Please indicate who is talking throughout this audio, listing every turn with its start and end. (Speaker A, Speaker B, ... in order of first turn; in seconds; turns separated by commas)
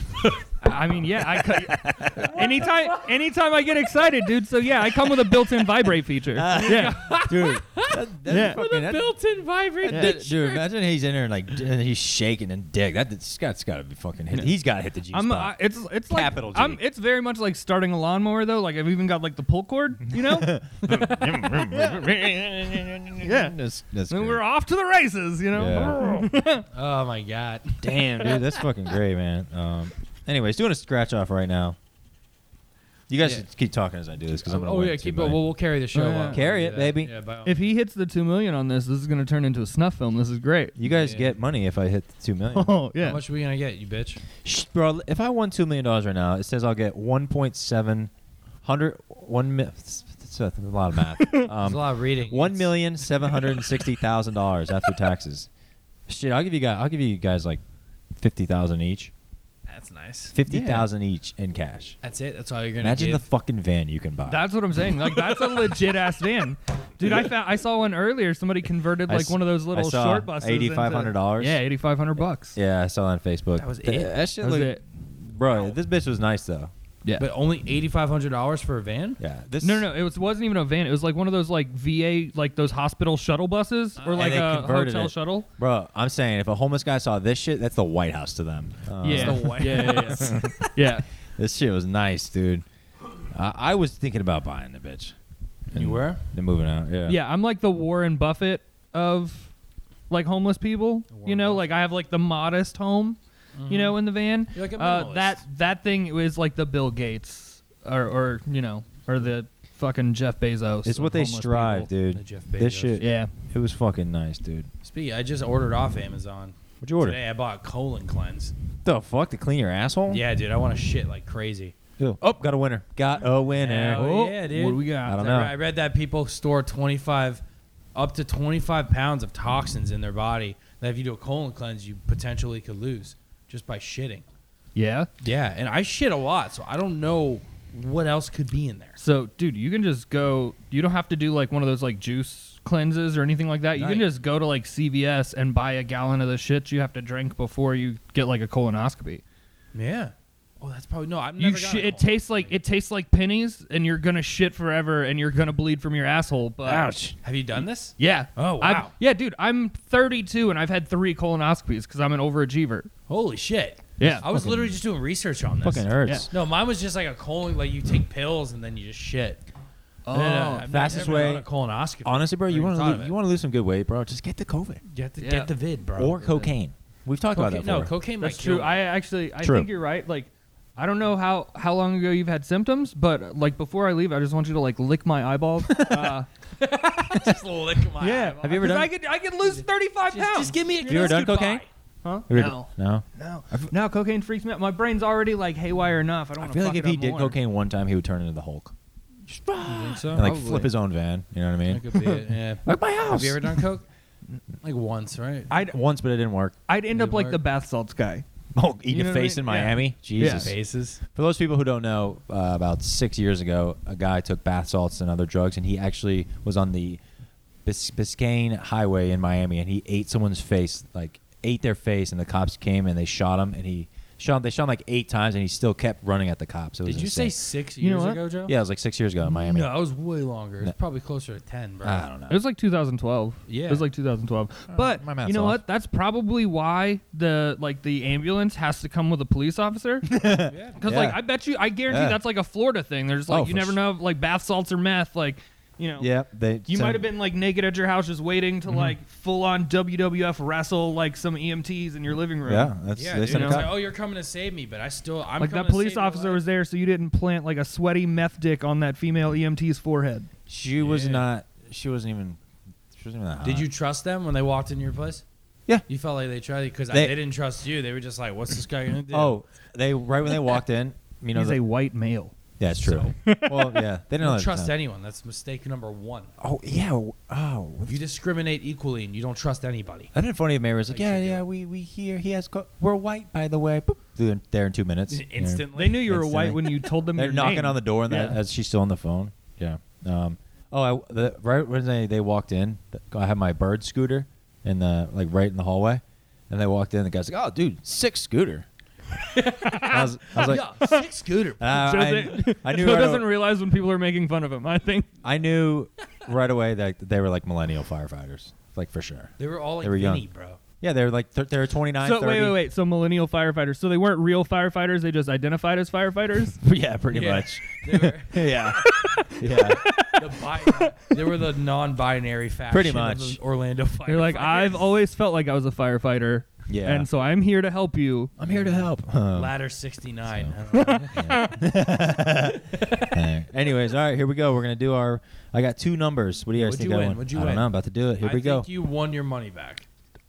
Speaker A: 0.6-7.1, Speaker B: 1.4-2.6, Speaker C: 2.2-2.9, Speaker B: 6.3-9.1, Speaker C: 6.5-10.7, Speaker A: 8.3-8.6, Speaker B: 9.8-15.5, Speaker A: 9.9-10.1, Speaker A: 15.1-22.0, Speaker B: 16.1-16.8, Speaker B: 20.1-24.4, Speaker A: 23.2-23.6, Speaker A: 24.1-26.6, Speaker B: 25.5-26.0, Speaker C: 26.7-28.0, Speaker B: 27.8-31.8, Speaker B: 33.1-35.4, Speaker C: 34.3-37.7, Speaker A: 35.9-36.4, Speaker B: 36.3-37.1, Speaker A: 37.4-40.8, Speaker B: 40.8-42.8, Speaker C: 40.8-41.3, Speaker A: 42.5-43.2, Speaker C: 43.0-44.2, Speaker B: 44.4-48.1, Speaker B: 48.6-55.5, Speaker A: 51.2-51.5, Speaker C: 51.5-52.8, Speaker B: 56.1-57.6, Speaker B: 58.1-59.1, Speaker C: 59.7-60.4, Speaker B: 60.3-62.0, Speaker A: 60.5-60.9, Speaker C: 62.0-63.2, Speaker B: 62.8-64.4, Speaker A: 64.3-72.6, Speaker B: 69.1-71.6, Speaker B: 72.5-76.7, Speaker C: 73.6-74.1, Speaker A: 73.8-74.8, Speaker C: 77.2-79.2, Speaker B: 79.2-79.9, Speaker A: 79.6-85.5, Speaker C: 84.0-84.4, Speaker B: 84.1-90.8, Speaker A: 89.0-91.0, Speaker C: 89.0-90.3, Speaker B: 91.3-92.6, Speaker B: 93.3-95.2, Speaker C: 95.7-96.2, Speaker B: 95.7-97.2, Speaker A: 97.0-99.5, Speaker A: 100.1-103.2, Speaker C: 101.1-101.7, Speaker C: 103.5-104.0, Speaker A: 103.7-111.9, Speaker C: 104.5-105.4, Speaker B: 110.8-114.7, Speaker C: 112.1-113.0, Speaker A: 113.0-113.3, Speaker C: 114.8-118.5, Speaker B: 116.8-117.2, Speaker B: 118.8-120.2, Speaker C: 120.1-121.7, Speaker B: 122.0-124.0, Speaker C: 123.5-127.4, Speaker A: 123.9-125.2, Speaker B: 125.0-125.5, Speaker C: 127.9-134.2, Speaker A: 134.7-135.1, Speaker C: 135.2-139.0, Speaker A: 139.0-149.2, Speaker C: 143.7-144.1, Speaker C: 149.7-152.6, Speaker A: 151.4-156.9, Speaker B: 156.7-157.1, Speaker C: 157.1-158.9, Speaker A: 158.0-162.9, Speaker C: 163.1-169.4, Speaker A: 164.0-164.2, Speaker B: 164.0-164.8, Speaker B: 165.6-166.3, Speaker A: 170.1-171.1, Speaker C: 170.1-173.1, Speaker B: 170.7-171.4, Speaker B: 172.0-174.8, Speaker C: 174.9-176.5, Speaker A: 175.2-175.5, Speaker B: 175.9-177.9, Speaker C: 177.3-178.8, Speaker A: 178.2-186.3, Speaker B: 179.4-179.7, Speaker B: 185.7-186.1, Speaker C: 186.6-188.7, Speaker A: 188.0-191.2, Speaker B: 188.4-188.9, Speaker C: 189.4-191.7, Speaker B: 190.8-191.6, Speaker A: 192.0-197.3, Speaker B: 192.3-193.7, Speaker B: 196.4-198.7, Speaker B: 199.3-203.6, Speaker C: 199.6-200.7, Speaker A: 200.2-200.7, Speaker C: 201.7-203.8, Speaker C: 204.6-205.5, Speaker A: 205.5-205.7, Speaker B: 205.6-206.6, Speaker A: 206.7-208.2, Speaker C: 206.9-207.4, Speaker B: 208.5-210.5, Speaker A: 208.9-210.5, Speaker C: 210.2-211.0, Speaker B: 211.1-217.0, Speaker B: 217.6-227.3, Speaker C: 226.8-228.5, Speaker A: 227.8-228.2, Speaker B: 228.4-229.7, Speaker C: 229.2-232.1, Speaker B: 231.8-232.4, Speaker A: 232.3-240.1, Speaker C: 233.5-233.9, Speaker B: 234.7-235.6, Speaker B: 240.1-241.2, Speaker C: 240.4-240.8, Speaker A: 240.8-246.1, Speaker B: 241.9-242.2, Speaker B: 243.3-243.8, Speaker B: 246.0-247.1, Speaker A: 246.7-252.7, Speaker B: 248.7-248.9, Speaker B: 252.4-253.8, Speaker C: 252.9-256.4, Speaker A: 253.3-253.7, Speaker A: 255.4-260.3, Speaker B: 260.5-262.4, Speaker C: 260.8-261.2, Speaker B: 262.9-263.7, Speaker C: 263.4-265.2, Speaker C: 265.9-269.4, Speaker B: 269.1-271.6, Speaker A: 271.3-272.4, Speaker B: 272.6-274.7, Speaker C: 272.8-273.1, Speaker A: 273.2-273.8, Speaker C: 274.2-276.3, Speaker B: 276.4-278.0, Speaker C: 277.9-280.1, Speaker B: 280.1-298.6, Speaker C: 280.9-281.4, Speaker C: 285.1-286.0, Speaker A: 285.8-288.4, Speaker C: 299.4-299.7, Speaker A: 299.5-301.0, Speaker B: 299.8-300.7, Speaker C: 300.3-301.8, Speaker B: 301.6-303.3, Speaker A: 301.6-305.1, Speaker B: 305.2-310.2, Speaker C: 309.4-310.6, Speaker B: 310.8-312.6, Speaker A: 312.0-316.6, Speaker B: 316.6-319.8, Speaker C: 317.1-324.8, Speaker A: 319.1-320.9, Speaker B: 322.7-323.4, Speaker A: 324.1-328.3, Speaker B: 326.7-327.1, Speaker B: 328.4-329.5, Speaker C: 328.5-331.3, Speaker A: 330.7-331.6, Speaker B: 331.1-338.7, Speaker C: 332.7-333.2, Speaker C: 336.5-339.8